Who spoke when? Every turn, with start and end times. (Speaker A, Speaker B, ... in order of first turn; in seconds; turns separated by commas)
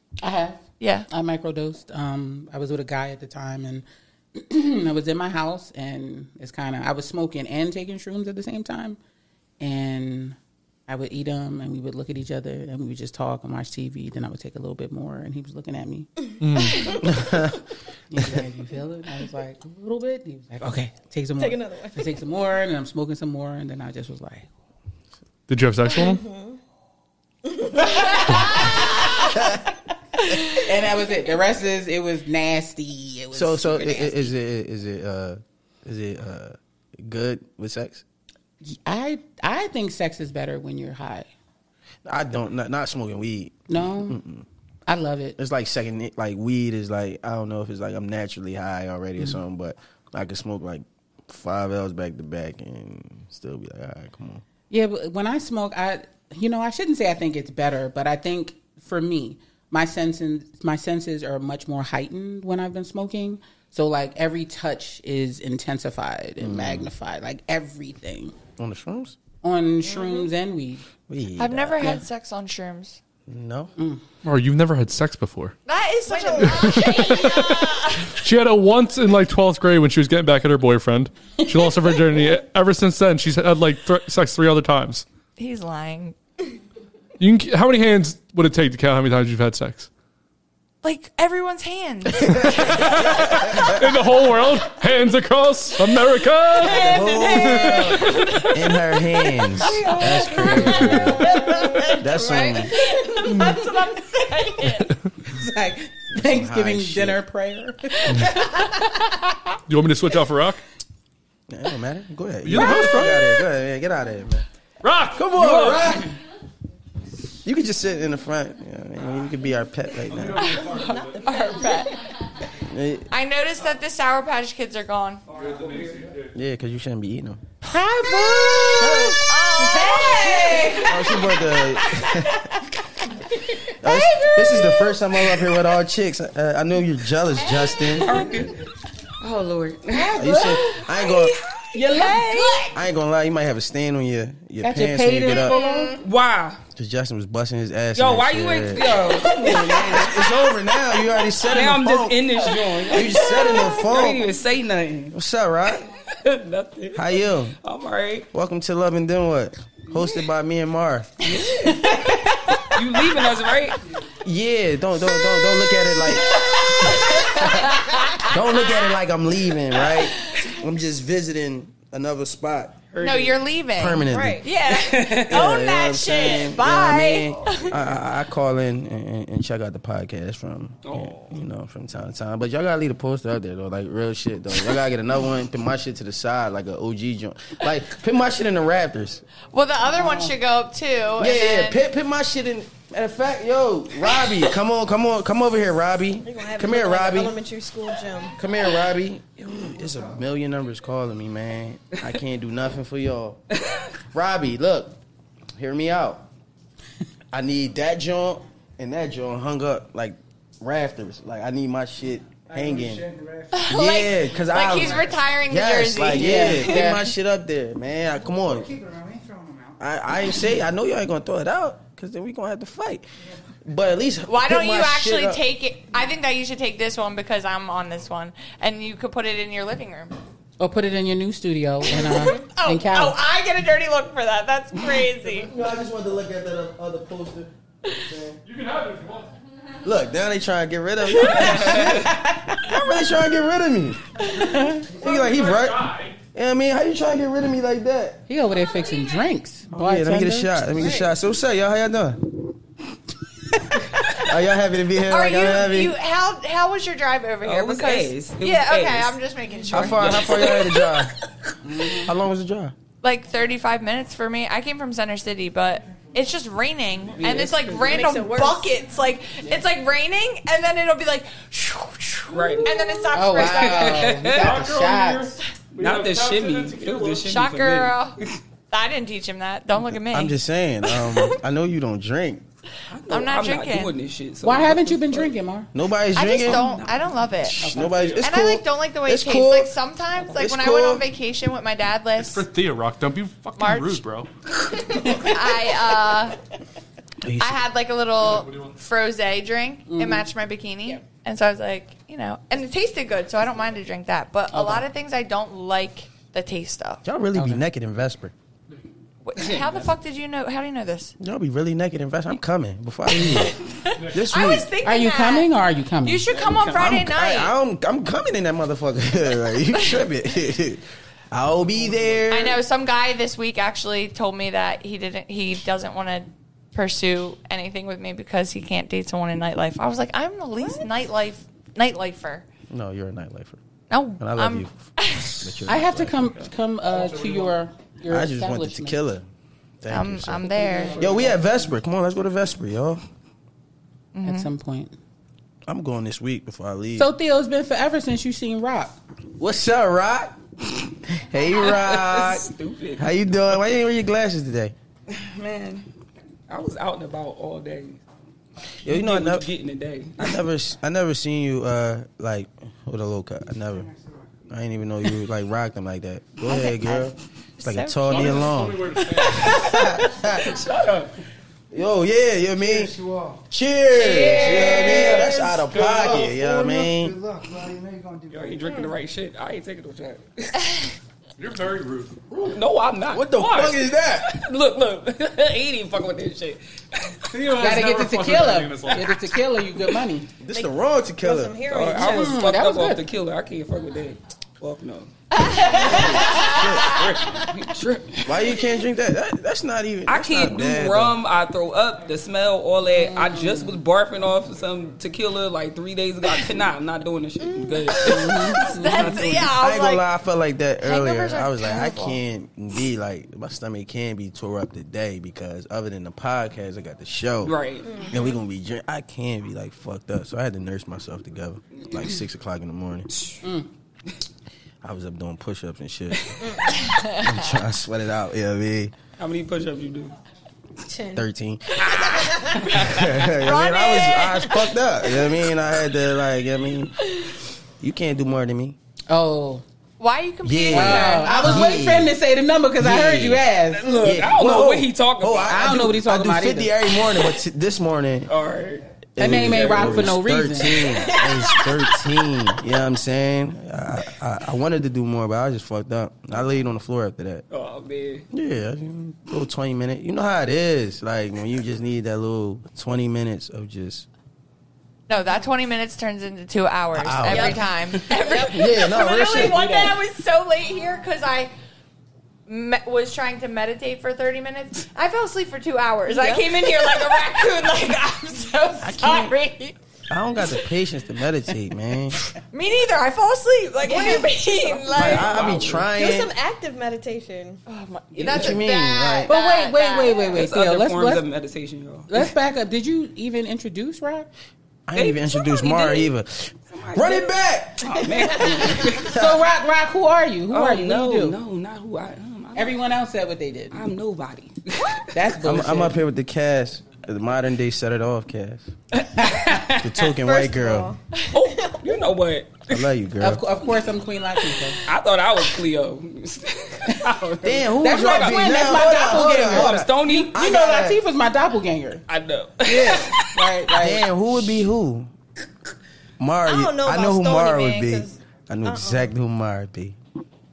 Speaker A: 0.2-9.0, Speaker B: 0.8-1.1, Speaker A: 9.6-10.4, Speaker A: 10.9-16.1, Speaker C: 16.4-17.0, Speaker D: 17.0-17.6, Speaker A: 18.1-24.5, Speaker D: 18.2-18.4, Speaker E: 21.4-22.1, Speaker C: 25.5-26.2, Speaker E: 25.9-26.6, Speaker E: 27.4-29.6, Speaker E: 30.3-30.6, Speaker A: 30.6-34.3, Speaker D: 33.3-38.0, Speaker A: 38.6-41.3, Speaker D: 42.1-44.5, Speaker A: 43.7-44.2, Speaker A: 44.9-45.4, Speaker D: 45.4-54.4, Speaker A: 54.7-68.3, Speaker D: 66.4-66.9, Speaker D: 68.6-69.2, Speaker A: 69.4-70.8, Speaker E: 69.8-70.3, Speaker D: 71.1-72.0, Speaker B: 71.4-73.0, Speaker D: 73.3-73.7, Speaker A: 73.8-74.0, Speaker C: 74.2-75.5, Speaker B: 75.7-78.2, Speaker E: 76.1-77.6, Speaker C: 76.5-85.0, Speaker B: 85.4-86.2, Speaker C: 87.2-89.9, Speaker B: 90.8-93.6, Speaker D: 92.2-93.8, Speaker C: 92.6-96.9, Speaker E: 96.6-98.0, Speaker D: 96.6-101.4, Speaker B: 97.9-98.5, Speaker A: 99.5-101.7, Speaker B: 100.3-102.0, Speaker E: 100.4-104.0, Speaker D: 102.0-102.8, Speaker B: 102.7-105.0, Speaker A: 105.2-109.3, Speaker D: 106.1-107.2, Speaker C: 109.7-110.6, Speaker D: 111.5-114.5, Speaker C: 112.4-113.2, Speaker C: 114.8-116.1, Speaker D: 115.1-116.1, Speaker D: 117.4-120.6, Speaker C: 120.0-121.3, Speaker B: 120.5-122.0, Speaker E: 120.6-122.0, Speaker D: 122.6-123.1, Speaker B: 123.1-125.2, Speaker F: 125.3-126.1, Speaker C: 125.3-126.3, Speaker G: 125.7-126.1, Speaker D: 126.3-127.4, Speaker A: 127.6-131.3, Speaker B: 128.1-130.8, Speaker D: 128.7-129.2, Speaker E: 129.7-130.8, Speaker D: 130.8-132.5, Speaker D: 133.8-138.2, Speaker A: 134.2-134.8, Speaker B: 137.4-138.3, Speaker F: 138.0-138.6, Speaker F: 139.2-142.2, Speaker A: 139.9-140.9, Speaker D: 140.1-141.4, Speaker A: 141.7-142.7, Speaker B: 142.1-142.5, Speaker D: 142.7-145.6, Speaker A: 144.6-146.0, Speaker E: 145.6-145.9, Speaker F: 146.0-146.6, Speaker D: 146.8-154.3, Speaker F: 147.9-150.4, Speaker F: 151.4-155.2, Speaker D: 155.1-155.9, Speaker F: 155.8-158.3, Speaker D: 156.9-157.6, Speaker D: 158.3-161.2, Speaker F: 161.2-162.0, Speaker A: 161.6-162.3, Speaker F: 162.8-163.8, Speaker D: 164.2-172.8, Speaker B: 166.5-168.8, Speaker B: 169.8-170.5, Speaker F: 172.9-173.4, Speaker B: 173.0-177.8, Speaker D: 173.8-174.4, Speaker E: 174.1-174.5, Speaker F: 174.7-175.4, Speaker D: 175.3-189.2, Speaker F: 180.8-181.3, Speaker B: 189.5-191.8, Speaker A: 189.9-190.3, Speaker D: 191.2-197.3, Speaker E: 196.2-198.4, Speaker D: 198.4-203.4, Speaker D: 204.1-205.0, Speaker D: 205.6-206.3, Speaker D: 207.3-213.0, Speaker G: 212.4-213.7, Speaker B: 213.5-217.0, Speaker D: 213.7-218.7, Speaker G: 214.6-215.2, Speaker A: 216.1-217.0, Speaker G: 218.3-219.8, Speaker D: 219.8-223.1, Speaker D: 223.7-225.4, Speaker B: 224.3-230.1, Speaker A: 230.6-233.2, Speaker B: 231.9-235.5, Speaker D: 235.3-237.5, Speaker D: 238.1-238.4, Speaker C: 238.4-239.3, Speaker D: 239.8-244.0, Speaker A: 241.2-242.7, Speaker F: 241.4-242.1, Speaker G: 244.2-244.7, Speaker A: 244.4-244.9, Speaker D: 244.9-248.2, Speaker C: 244.9-246.2, Speaker A: 248.3-251.1, Speaker D: 249.7-252.3, Speaker D: 254.2-256.0, Speaker B: 255.1-260.9, Speaker F: 257.4-259.2, Speaker F: 259.7-260.8, Speaker D: 259.7-261.1, Speaker A: 261.6-262.1, Speaker D: 262.0-262.7, Speaker B: 263.0-274.1, Speaker F: 267.1-268.0, Speaker E: 267.8-268.7, Speaker F: 272.3-274.6, Speaker A: 273.1-275.4, Speaker C: 274.4-277.3, Speaker F: 275.8-278.4, Speaker B: 277.2-278.2, Speaker B: 278.7-280.4, Speaker D: 280.1-282.4, Speaker F: 282.9-285.3, Speaker B: 283.1-283.9, Speaker A: 284.4-285.7, Speaker D: 285.7-286.6, Speaker B: 286.1-287.6, Speaker F: 286.2-287.3, Speaker A: 287.6-288.1, Speaker D: 287.6-289.7, Speaker C: 287.8-288.2, Speaker B: 288.2-292.5, Speaker D: 290.3-291.1, Speaker C: 292.2-294.3, Speaker B: 293.6-294.0, Speaker A: 294.9-295.4, Speaker B: 294.9-296.4, Speaker D: 297.2-297.6, Speaker B: 297.4-307.0, Speaker C: 298.2-298.7, Speaker A: 299.9-300.3, Speaker A: 304.5-304.9, Speaker D: 307.0-308.3, Speaker A: 307.4-307.6, Speaker B: 309.2-311.1, Speaker D: 311.2-313.6, Speaker B: 313.3-315.5, Speaker C: 313.9-314.3, Speaker D: 314.1-314.7, Speaker A: 314.8-316.3, Speaker B: 316.0-317.5, Speaker F: 316.3-317.0, Speaker D: 316.8-322.6, Speaker B: 322.3-332.5, Speaker E: 330.6-330.9, Speaker D: 332.7-333.6, Speaker B: 333.9-335.6, Speaker D: 334.2-336.5, Speaker A: 335.7-339.0, Speaker C: 336.9-337.5, Speaker D: 338.1-339.3, Speaker D: 339.8-343.0, Speaker B: 339.9-341.2, Speaker A: 340.5-341.4, Speaker G: 341.1-341.4, Speaker B: 344.1-344.5, Speaker A: 344.2-344.9, Speaker D: 345.7-347.1, Speaker A: 347.0-349.0, Speaker D: 349.4-350.4, Speaker D: 351.1-354.8, Speaker F: 351.5-353.1, Speaker F: 355.1-355.9, Speaker F: 356.5-358.0, Speaker D: 358.9-359.5, Speaker F: 358.9-360.4, Speaker D: 360.2-363.9, Speaker G: 363.7-364.4, Speaker D: 364.5-370.6, Speaker B: 366.5-370.0, Speaker C: 368.1-369.6, Speaker F: 370.3-371.1, Speaker D: 371.7-372.9, Speaker G: 372.6-373.4, Speaker D: 373.5-377.2, Speaker B: 373.9-375.0, Speaker F: 374.0-375.3, Speaker G: 375.0-378.8, Speaker C: 375.7-376.2, Speaker F: 378.3-380.8, Speaker E: 378.6-378.9, Speaker C: 381.4-382.1, Speaker D: 382.3-384.4, Speaker F: 382.5-387.5, Speaker C: 387.3-389.4, Speaker A: 387.5-390.3, Speaker D: 390.4-391.7, Speaker E: 390.5-392.4, Speaker F: 391.7-398.6, Speaker A: 392.1-393.1, Speaker B: 395.3-397.4, Speaker D: 395.8-397.1, Speaker D: 398.2-401.2, Speaker F: 400.1-409.5, Speaker A: 402.9-403.8, Speaker E: 407.4-408.9, Speaker B: 407.9-410.0, Speaker A: 408.0-409.2, Speaker D: 409.1-423.1, Speaker B: 410.8-412.2, Speaker F: 417.4-418.1, Speaker E: 417.9-418.2, Speaker A: 423.4-423.7, Speaker D: 424.8-426.2, Speaker F: 426.1-426.5, Speaker E: 426.4-426.8, Speaker D: 427.0-428.9, Speaker F: 429.2-430.1, Speaker E: 430.9-431.2, Speaker D: 431.1-437.0, Speaker F: 431.8-433.2, Speaker E: 431.9-432.7, Speaker B: 433.3-434.8, Speaker D: 437.8-438.8, Speaker A: 439.1-439.6, Speaker B: 440.0-441.9, Speaker D: 440.4-442.1, Speaker A: 440.7-443.9, Speaker D: 442.8-448.3, Speaker F: 443.7-445.8, Speaker A: 445.4-446.8, Speaker F: 448.3-450.2, Speaker D: 449.2-457.4, Speaker A: 449.2-451.0, Speaker F: 450.8-451.9, Speaker F: 457.5-458.3, Speaker D: 458.3-464.1, Speaker B: 465.1-471.5, Speaker D: 466.9-467.7, Speaker E: 467.3-467.6, Speaker D: 468.4-469.6, Speaker A: 469.2-470.0, Speaker B: 472.5-479.8, Speaker E: 476.1-477.2, Speaker D: 478.8-479.4, Speaker D: 480.1-482.2, Speaker B: 482.5-485.4, Speaker E: 483.8-487.6, Speaker D: 484.9-486.3, Speaker F: 485.0-485.8, Speaker B: 487.7-490.4, Speaker D: 488.2-489.3, Speaker A: 489.3-491.2, Speaker F: 490.3-492.3, Speaker A: 492.1-494.3, Speaker D: 494.9-499.4, Speaker F: 494.9-496.1, Speaker F: 496.7-499.2, Speaker A: 498.1-501.4, Speaker F: 500.5-502.8, Speaker A: 502.6-503.8, Speaker F: 503.7-505.2, Speaker A: 505.1-506.0, Speaker D: 505.4-508.7, Speaker F: 508.9-510.0, Speaker A: 509.2-509.5, Speaker D: 509.7-510.9, Speaker E: 510.1-512.0, Speaker F: 511.3-512.9, Speaker D: 512.7-513.4, Speaker A: 513.2-514.8, Speaker F: 514.8-520.4, Speaker A: 516.9-522.0, Speaker D: 517.4-521.0, Speaker F: 522.1-523.5, Speaker A: 522.6-524.1, Speaker D: 523.8-525.1, Speaker D: 526.2-530.0, Speaker E: 526.5-529.1